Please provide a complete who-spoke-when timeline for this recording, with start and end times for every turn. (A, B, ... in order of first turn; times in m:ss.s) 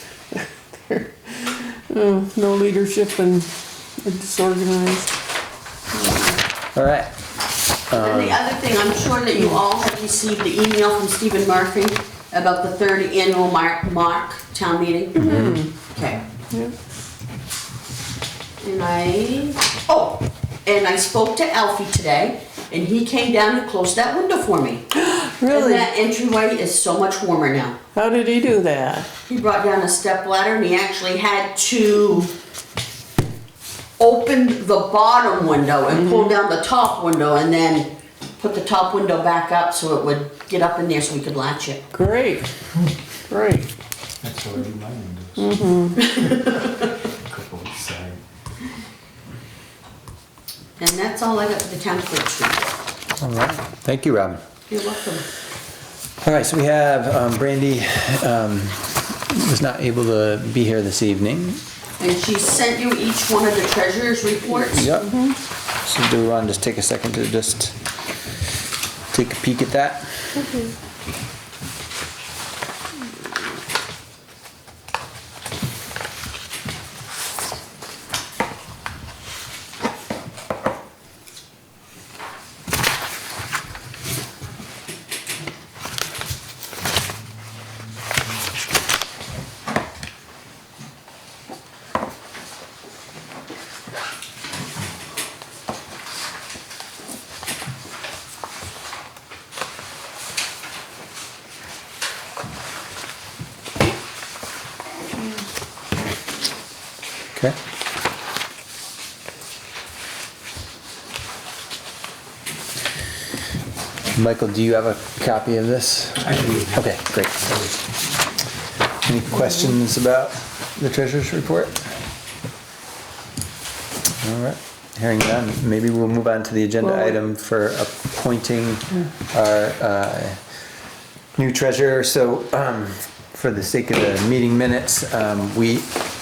0:00.3-0:05.1 A
0:05.9-0:06.4 A
0:06.7-0:07.1 B
0:07.9-0:08.4 B
0:07.9-0:15.3 C
0:15.2-0:15.7 A
0:15.2-0:15.6 B
0:15.9-0:16.2 C
0:18.6-0:24.8 C
0:24.9-0:25.9 A
0:25.5-0:27.8 C
0:27.9-0:29.1 A
0:29.3-0:32.3 C
0:34.0-0:41.8 C
0:35.9-0:36.3 A
0:41.9-0:42.5 A
0:43.3-0:43.7 A
0:44.2-0:48.2 D
0:45.4-0:46.1 A
0:46.1-0:46.7 C
0:50.8-0:52.6 C
0:53.2-0:54.4 B
0:54.7-0:55.2 C
0:56.2-1:01.6 B
1:02.0-1:04.9 C
1:04.7-1:05.2 B
1:04.9-1:05.4 A
1:05.8-1:07.7 B
1:09.1-1:10.2 B
1:54.1-1:57.4 B
1:56.2-1:57.8 D
1:59.0-2:01.8 B
2:04.2-2:10.4 B
2:11.4-2:15.9 B